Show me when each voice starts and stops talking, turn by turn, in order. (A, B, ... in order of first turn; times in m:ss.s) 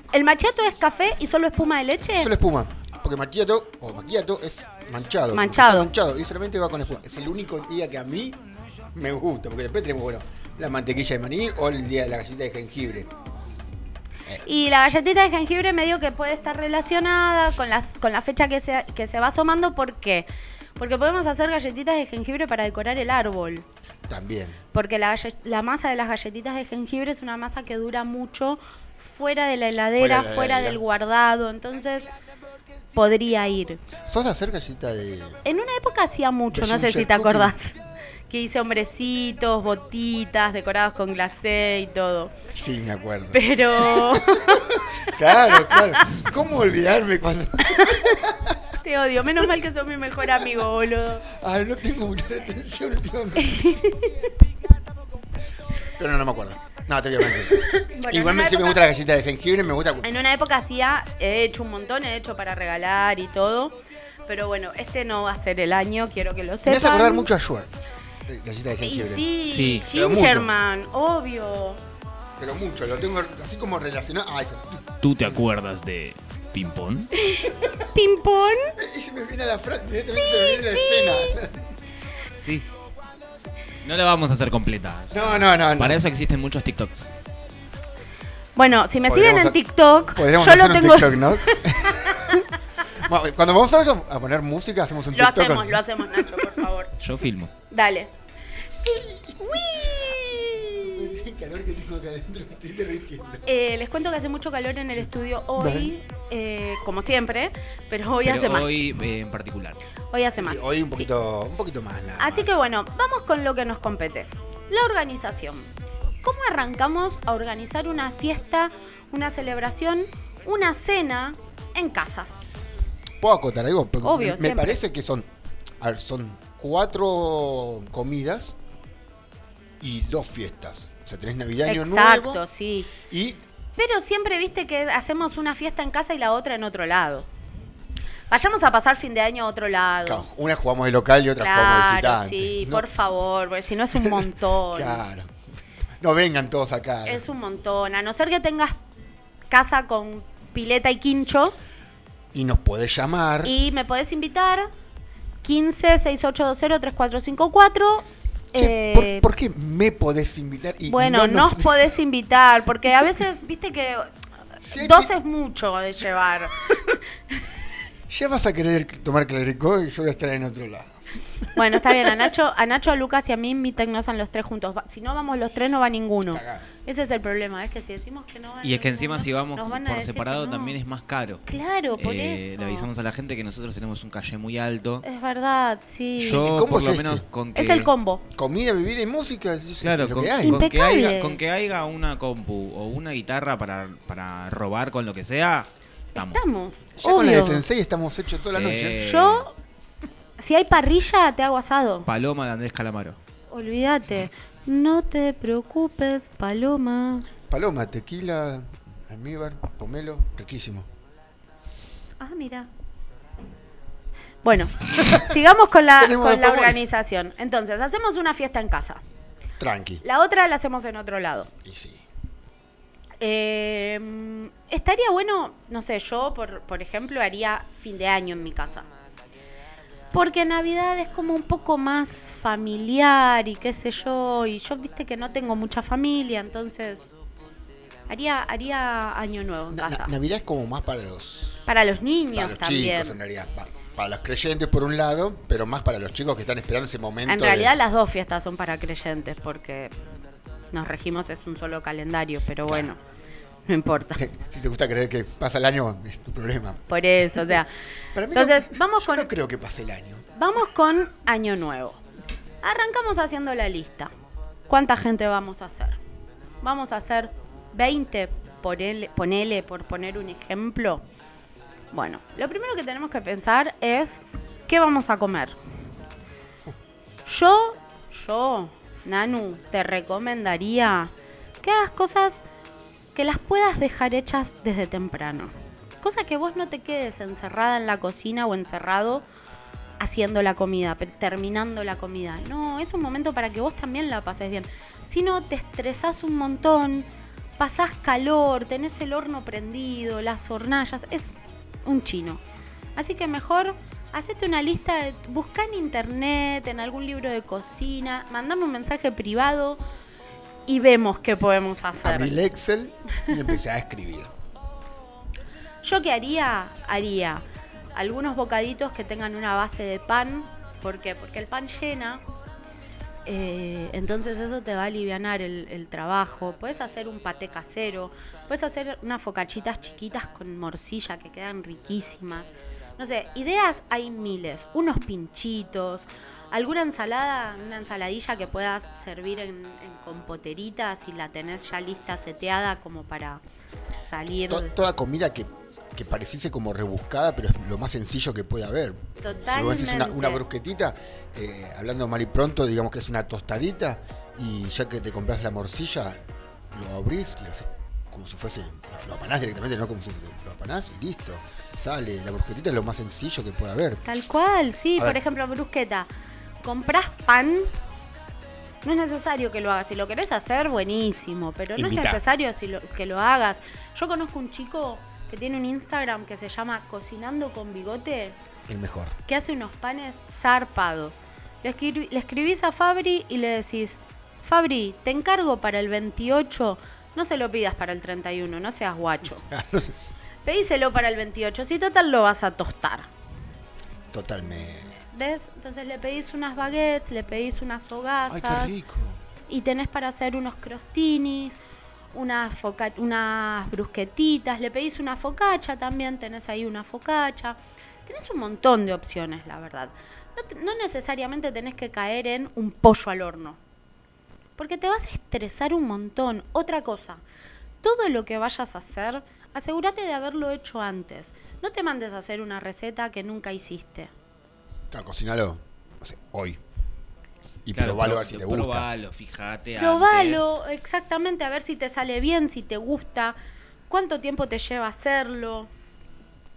0:00.1-0:02.3 A
0:02.2-0:08.4 B
0:05.3-0:05.9 A
0:08.9-0:13.1 B
0:14.4-0:23.7 A
0:24.1-0:24.6 B
0:24.7-0:32.1 A
0:29.9-0:30.8 B
0:33.0-0:33.8 A
0:34.0-0:35.4 B
0:35.4-0:37.8 A
0:36.5-0:37.6 B
0:38.3-0:42.4 A
0:42.5-0:48.5 B
0:43.3-0:44.8 A
0:45.4-0:46.1 A
0:47.7-0:48.2 A
0:48.8-0:51.2 A
0:51.3-0:53.7 B
0:53.4-0:54.1 A
0:56.0-1:00.1 B
0:57.5-0:58.8 A
1:00.0-1:07.3 A
1:06.6-1:07.7 B
1:08.3-1:09.3 B
1:08.8-1:11.8 A
1:09.5-1:09.9 C
1:09.8-1:10.5 B
1:12.4-1:15.4 B
1:15.0-1:17.1 C
1:17.2-1:18.8 A
1:18.8-1:21.7 B
1:20.3-1:21.3 A
1:22.4-1:22.7 C
1:23.8-1:27.1 C
1:25.1-1:26.0 B
1:28.6-1:32.5 A
1:29.1-1:32.4 B
1:33.0-1:36.5 B
1:35.1-1:36.9 A
1:37.0-1:37.5 C
1:37.7-1:38.1 A
1:38.8-1:43.4 B
1:39.4-1:41.0 A
1:43.5-1:48.8 A
1:45.6-1:45.9 B
1:48.2-1:49.8 C
1:50.1-1:51.1 A
1:50.4-1:52.5 B
1:52.2-1:55.7 A
1:56.2-2:02.3 A
2:03.2-2:05.3 B
2:04.0-2:04.8 A
2:05.8-2:08.6 B
2:09.8-2:12.4 B
2:11.7-2:12.9 A
2:13.0-2:13.4 B
2:13.8-2:17.3 A
2:18.3-2:20.2 A
2:20.0-2:22.9 B
2:21.4-2:25.0 A
2:24.0-2:25.3 B
2:26.0-2:27.2 B
2:27.1-2:28.8 A
2:29.5-2:31.6 A
2:32.3-2:33.6 B
2:33.4-2:34.7 A
2:35.4-2:39.3 A
2:38.5-2:41.8 B
2:40.9-2:44.1 A
2:44.6-2:45.1 B
2:44.7-2:47.0 A
2:48.1-2:51.0 B
2:51.6-3:00.8 A
2:51.7-2:52.2 B
2:56.3-2:56.7 B
2:58.6-3:01.4 C
3:01.5-3:02.9 A
3:02.0-3:05.0 C
3:05.0-3:06.4 A
3:06.2-3:07.9 C
3:06.2-3:07.2 B
3:07.6-3:08.2 A
3:08.4-3:10.7 B
3:09.8-3:16.4 C
3:10.4-3:11.4 A
3:16.2-3:17.6 A
3:17.0-3:19.1 B
3:18.5-3:19.4 C
3:19.0-3:19.5 A
3:20.4-3:22.1 A
3:22.1-3:23.2 C
3:23.5-3:27.3 A
3:27.5-3:30.9 B
3:32.2-3:32.7 A
3:34.4-3:39.0 A
3:36.0-3:36.8 B
3:39.6-3:40.0 B
3:40.0-3:41.5 A
3:41.6-3:42.0 B
3:43.2-3:48.9 A
3:50.1-3:57.1 A
3:58.1-4:00.1 A
3:59.7-4:01.7 B
4:01.7-4:03.2 A
4:02.3-4:07.8 B
4:07.3-4:09.9 A
4:10.7-4:13.0 A
4:12.6-4:12.9 B
4:13.7-4:14.2 A
4:14.2-4:16.8 B
4:16.9-4:17.7 A
4:18.1-4:20.3 B
4:18.3-4:19.3 A
4:20.4-4:22.0 A
4:22.6-4:24.1 A
4:24.7-4:26.0 A
4:26.6-4:31.0 A
4:31.9-4:35.6 A
4:37.3-4:41.1 A
4:41.6-4:42.4 A
4:43.2-4:49.3 A
4:50.0-5:02.4 A
5:03.0-5:09.8 A
5:10.7-5:12.4 A
5:12.0-5:14.3 B
5:15.8-5:17.4 A
5:18.0-5:22.2 A
5:23.3-5:43.4 A
5:44.0-5:44.7 A
5:44.5-6:04.0 B
5:49.2-5:50.4 A
6:04.1-6:06.1 A
6:06.6-6:07.7 A
6:08.8-6:18.4 A
6:11.8-6:12.2 B
6:18.7-6:19.2 B
6:19.3-6:29.4 A
6:29.4-6:30.0 B
6:30.4-6:33.1 A
6:34.1-6:35.0 B
6:35.1-6:38.7 A
6:38.3-6:39.2 B
6:39.5-6:41.6 A
6:42.1-6:53.6 A
6:54.6-6:57.2 A
6:57.8-7:04.1 A
7:04.9-7:06.6 B
7:07.6-7:08.9 B
7:07.7-7:10.5 C
7:09.8-7:13.4 A
7:13.9-7:15.7 A